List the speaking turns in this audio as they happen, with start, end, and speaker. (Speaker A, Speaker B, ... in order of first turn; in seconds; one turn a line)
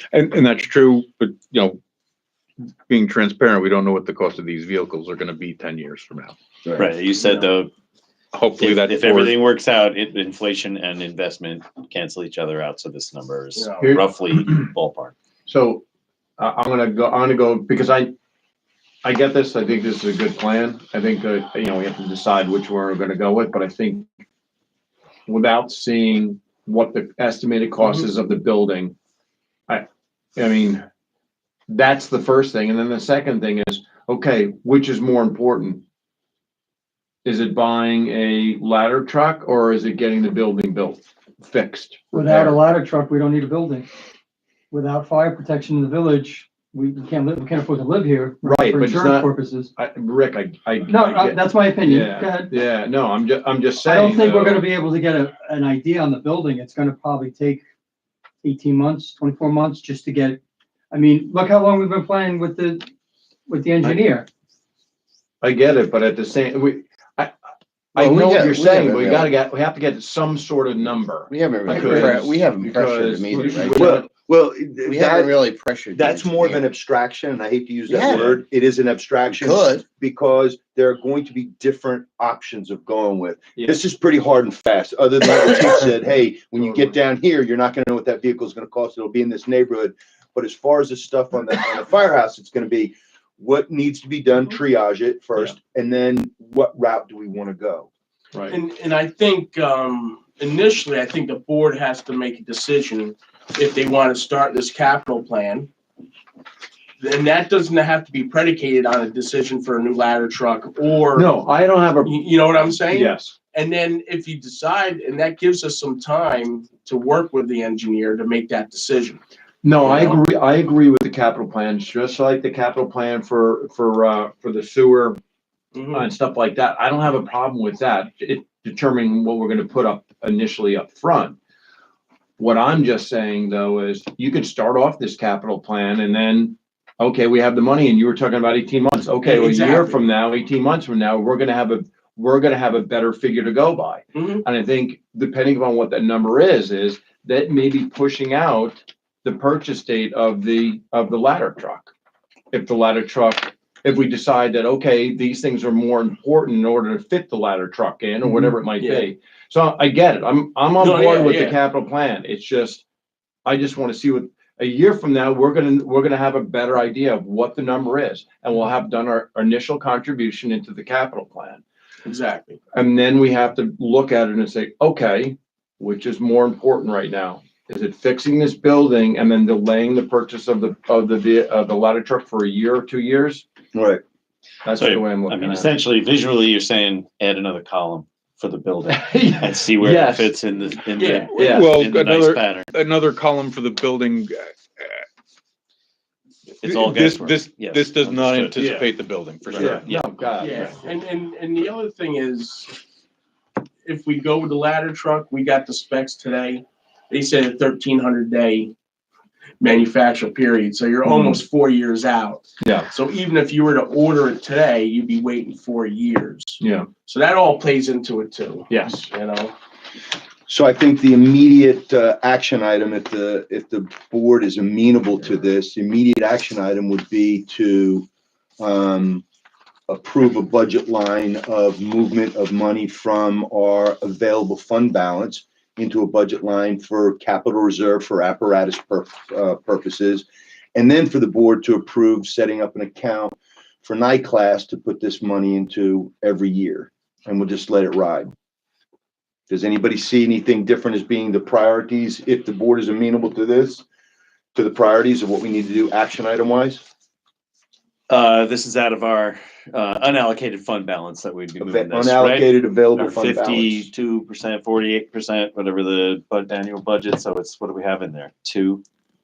Speaker A: 0.1-1.8
Speaker A: 2.9-6.3
Speaker B: 6.8-7.7
Speaker C: 7.2-7.5
Speaker A: 8.3-9.4
Speaker B: 8.6-15.1
Speaker C: 13.6-13.9
Speaker D: 13.8-14.0
Speaker D: 15.4-15.8
Speaker D: 16.4-18.1
Speaker D: 19.0-24.1
Speaker D: 25.3-28.9
Speaker D: 30.4-30.8
Speaker D: 31.7-35.8
Speaker D: 37.2-42.6
Speaker E: 42.1-43.9
Speaker E: 44.7-49.7
Speaker D: 48.4-54.7
Speaker E: 50.9-52.5
Speaker E: 53.8-57.6
Speaker E: 58.4-60.4
Speaker E: 60.9-62.9
Speaker E: 63.5-64.3
Speaker D: 65.4-67.3
Speaker D: 67.9-74.1
Speaker F: 68.0-69.3
Speaker F: 71.3-74.0
Speaker E: 71.7-72.0
Speaker G: 73.6-75.3
Speaker F: 74.8-76.7
Speaker G: 75.9-97.9
Speaker F: 77.9-78.4
Speaker F: 79.3-79.8
Speaker C: 98.5-105.7
Speaker C: 107.0-111.3
Speaker D: 111.1-112.2
Speaker C: 112.0-119.2
Speaker D: 112.9-113.3
Speaker D: 119.6-125.2
Speaker C: 119.8-120.2
Speaker C: 125.7-126.1
Speaker D: 125.9-131.4
Speaker D: 132.4-151.9
Speaker C: 139.2-140.0
Speaker C: 144.1-144.4
Speaker D: 152.5-162.8
Speaker C: 158.2-159.1
Speaker C: 160.8-161.6
Speaker D: 163.4-171.6
Speaker C: 172.0-172.6
Speaker D: 172.7-183.5
Speaker G: 183.7-184.0
Speaker D: 184.6-185.8
Speaker B: 184.8-192.8
Speaker D: 188.8-190.3
Speaker C: 191.0-191.7
Speaker D: 191.3-191.7
Speaker A: 191.3-195.0
Speaker B: 196.6-198.9
Speaker A: 196.6-200.1
Speaker D: 198.5-198.8
Speaker D: 199.5-200.8
Speaker B: 199.5-200.1
Speaker C: 200.4-202.7
Speaker C: 203.8-208.7
Speaker C: 209.6-219.5
Speaker D: 211.1-211.4
Speaker D: 212.6-212.9
Speaker D: 216.6-216.9
Speaker D: 218.7-219.0
Speaker G: 220.5-228.1
Speaker G: 228.6-229.2
Speaker G: 229.9-248.3
Speaker G: 249.5-253.8
Speaker G: 254.5-256.8
Speaker B: 258.1-268.8
Speaker G: 261.6-263.9